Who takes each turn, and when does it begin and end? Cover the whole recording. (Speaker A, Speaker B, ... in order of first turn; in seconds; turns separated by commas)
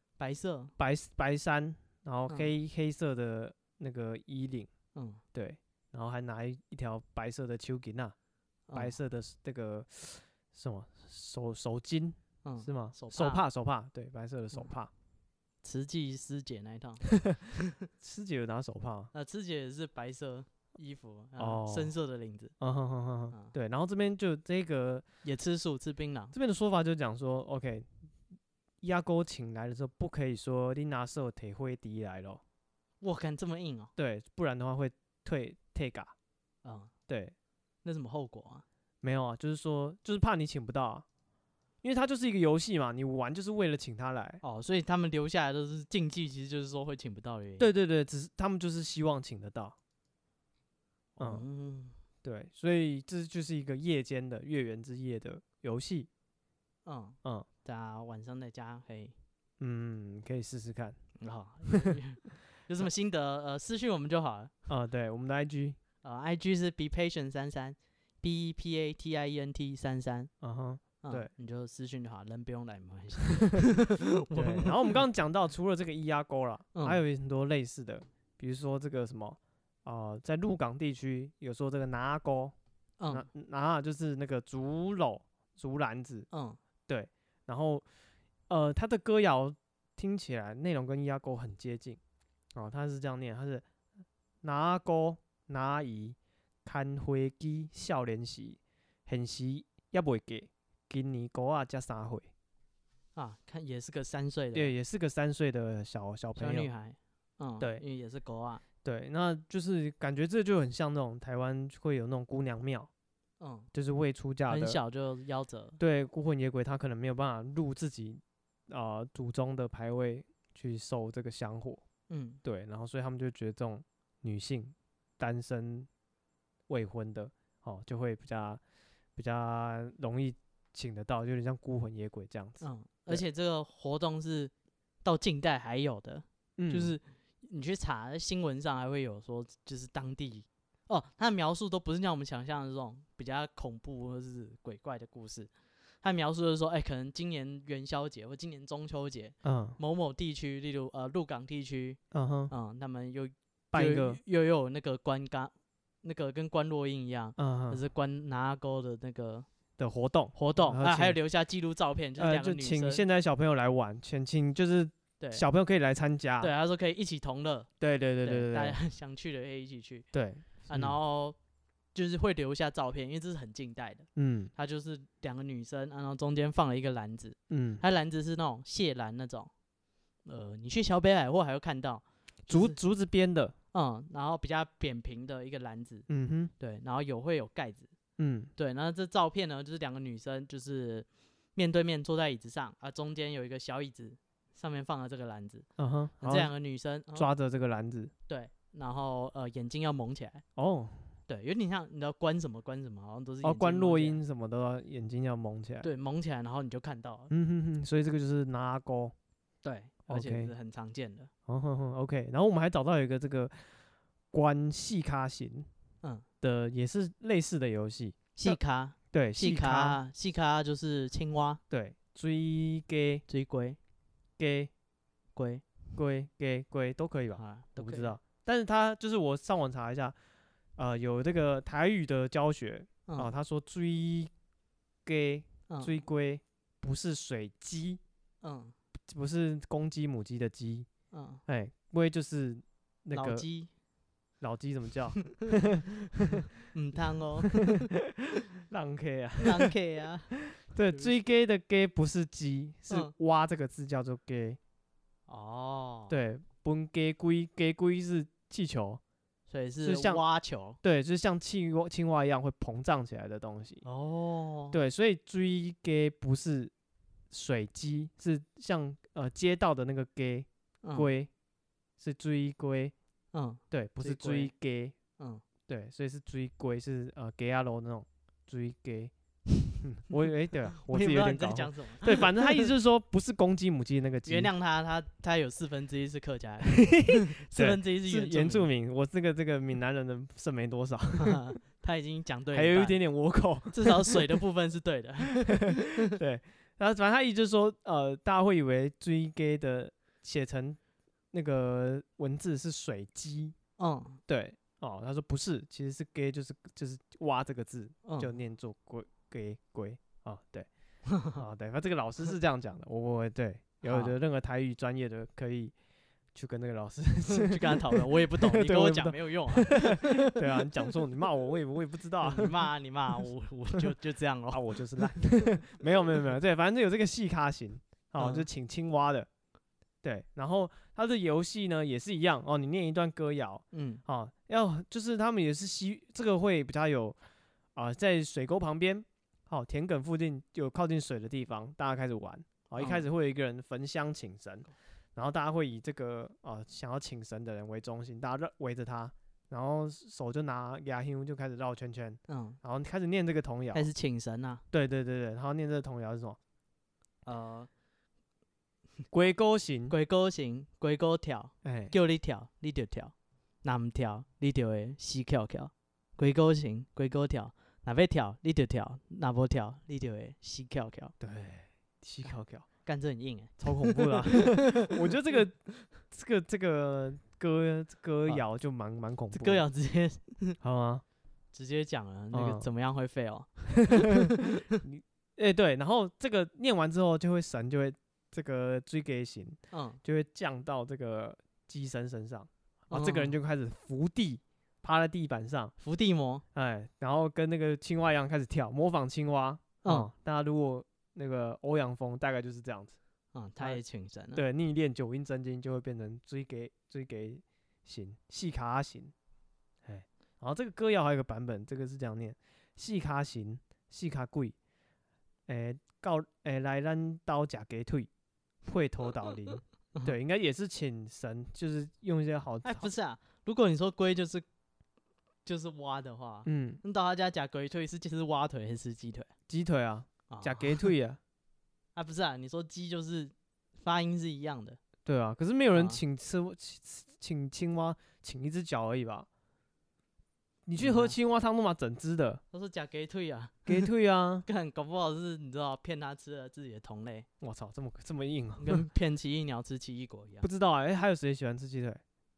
Speaker A: 0.2-0.7, Speaker B: 0.8-4.7, Speaker A: 4.9-5.2, Speaker B: 5.3-8.1, Speaker A: 8.7-9.0, Speaker B: 8.7-14.9, Speaker A: 12.4-13.4, Speaker A: 15.6-17.8, Speaker B: 18.0-19.1, Speaker A: 19.1-22.5, Speaker B: 21.4-21.9, Speaker B: 22.6-25.1, Speaker A: 25.2-26.3, Speaker B: 26.3-27.9, Speaker B: 28.8-32.4, Speaker A: 33.0-33.9, Speaker B: 34.0-36.1, Speaker A: 36.6-36.9, Speaker B: 37.1-37.3, Speaker A: 37.8-38.6, Speaker B: 39.0-41.0, Speaker B: 41.8-44.4, Speaker A: 44.4-47.7, Speaker B: 47.6-49.7, Speaker A: 51.2-51.9, Speaker B: 51.2-51.4, Speaker B: 52.2-56.1, Speaker A: 56.9-59.1, Speaker B: 59.6-61.0, Speaker A: 61.2-64.5, Speaker B: 61.7-62.0, Speaker B: 64.7-65.8, Speaker A: 66.0-70.3, Speaker B: 70.4-71.3, Speaker A: 71.0-75.0, Speaker B: 74.3-82.5, Speaker A: 76.7-77.0, Speaker A: 83.0-83.2, Speaker B: 83.1-86.3, Speaker A: 86.3-86.6, Speaker B: 86.9-87.8, Speaker B: 88.5-92.0, Speaker B: 92.5-93.6, Speaker B: 94.4-102.3, Speaker A: 103.2-104.7, Speaker B: 104.5-106.7, Speaker A: 106.3-108.6, Speaker B: 108.8-112.9, Speaker A: 113.4-113.7, Speaker B: 113.7-114.8, Speaker A: 114.5-115.8, Speaker B: 115.8-121.8, Speaker A: 122.1-122.4, Speaker B: 122.4-125.9, Speaker B: 126.7-128.6, Speaker B: 129.2-133.2, Speaker A: 132.6-134.5, Speaker A: 135.0-145.5, Speaker B: 136.6-137.0, Speaker A: 146.0-152.0, Speaker B: 149.4-149.8, Speaker B: 152.1-152.5, Speaker A: 152.5-159.5, Speaker B: 153.7-154.2, Speaker B: 157.4-157.8, Speaker B: 159.8-161.2, Speaker A: 160.3-163.0, Speaker B: 162.2-166.5, Speaker A: 166.4-167.7, Speaker B: 167.8-168.8, Speaker A: 168.2-170.1, Speaker B: 170.1-170.9, Speaker A: 170.6-171.4, Speaker A: 171.9-179.5, Speaker B: 174.2-174.5, Speaker B: 177.5-177.8, Speaker A: 180.2-182.8, Speaker B: 182.5-183.5, Speaker A: 183.7-186.1, Speaker B: 186.1-186.5, Speaker A: 186.6-187.9, Speaker B: 188.2-188.5, Speaker A: 188.6-195.7, Speaker B: 195.8-196.5, Speaker A: 196.2-197.3, Speaker B: 197.1-198.1, Speaker A: 198.3-200.4, Speaker B: 200.6-201.0, Speaker A: 201.3-204.2, Speaker B: 203.4-205.9, Speaker A: 205.8-207.3, Speaker B: 207.3-209.1, Speaker A: 209.6-211.3, Speaker B: 210.1-210.5, Speaker B: 211.5-213.7, Speaker B: 214.3-215.7, Speaker B: 216.4-218.6, Speaker A: 218.3-221.6, Speaker B: 219.1-220.0, Speaker B: 221.7-223.2, Speaker A: 223.3-223.8, Speaker B: 224.4-224.7, Speaker A: 225.3-225.6, Speaker B: 225.9-230.1, Speaker A: 227.3-228.2, Speaker B: 230.8-234.3, Speaker B: 235.0-238.0, Speaker A: 235.7-236.0, Speaker A: 238.4-238.7, Speaker B: 239.1-240.9, Speaker A: 241.1-241.4, Speaker B: 241.5-243.4, Speaker A: 243.1-243.7, Speaker B: 244.4-246.4, Speaker A: 246.7-247.9, Speaker B: 247.4-248.1, Speaker B: 248.7-249.7, Speaker A: 249.4-250.4, Speaker B: 250.5-254.6, Speaker A: 255.3-256.1, Speaker B: 256.1-259.0, Speaker A: 259.5-260.8, Speaker B: 259.8-260.2, Speaker B: 260.8-263.8, Speaker A: 263.8-264.8, Speaker B: 264.7-266.7, Speaker B: 267.3-271.3, Speaker A: 270.8-271.1, Speaker B: 272.0-272.9, Speaker A: 273.3-274.5, Speaker B: 273.7-274.9, Speaker A: 275.2-275.4, Speaker B: 275.7-279.1, Speaker B: 279.8-284.5, Speaker A: 280.7-282.7, Speaker A: 284.2-288.7, Speaker B: 286.7-291.4, Speaker A: 291.2-293.0, Speaker B: 292.5-294.4, Speaker A: 293.7-296.1, Speaker B: 295.5-300.8, Speaker B: 301.3-303.6, Speaker A: 303.8-304.2, Speaker B: 304.3-310.7, Speaker A: 308.0-308.3, Speaker A: 311.1-311.4, Speaker B: 311.2-315.7, Speaker A: 313.8-314.1, Speaker B: 316.3-322.5, Speaker A: 317.3-320.3, Speaker A: 322.2-325.3, Speaker B: 324.5-329.3, Speaker A: 328.2-328.5, Speaker B: 330.0-337.2, Speaker A: 333.7-334.0, Speaker B: 337.7-353.9, Speaker A: 342.8-343.0, Speaker A: 352.3-352.6, Speaker A: 353.7-354.6, Speaker B: 354.7-356.4, Speaker A: 357.2-357.7, Speaker B: 359.1-359.9, Speaker A: 359.9-371.1, Speaker B: 361.6-361.9, Speaker B: 371.2-372.6, Speaker A: 372.8-375.4, Speaker B: 373.6-379.6, Speaker A: 379.3-380.6, Speaker B: 380.6-381.0, Speaker A: 381.5-384.8, Speaker B: 382.3-382.6, Speaker B: 383.9-384.2, Speaker B: 384.8-395.7, Speaker A: 389.7-390.0, Speaker A: 392.9-393.3, Speaker A: 395.8-396.4, Speaker B: 396.5-402.9, Speaker A: 399.8-400.1, Speaker A: 403.3-404.4, Speaker B: 404.3-409.1, Speaker B: 409.8-414.5, Speaker B: 415.5-418.1, Speaker B: 418.6-422.9, Speaker A: 422.6-424.4, Speaker A: 425.4-429.3, Speaker B: 426.4-426.8, Speaker B: 429.5-431.2, Speaker A: 430.3-430.9, Speaker A: 431.9-434.8, Speaker B: 435.0-439.3, Speaker A: 435.7-436.0, Speaker B: 440.6-442.4, Speaker A: 440.8-441.2, Speaker A: 442.5-443.9, Speaker B: 443.7-444.4, Speaker A: 444.4-447.3, Speaker B: 447.4-448.8, Speaker A: 448.6-450.5, Speaker B: 450.4-452.0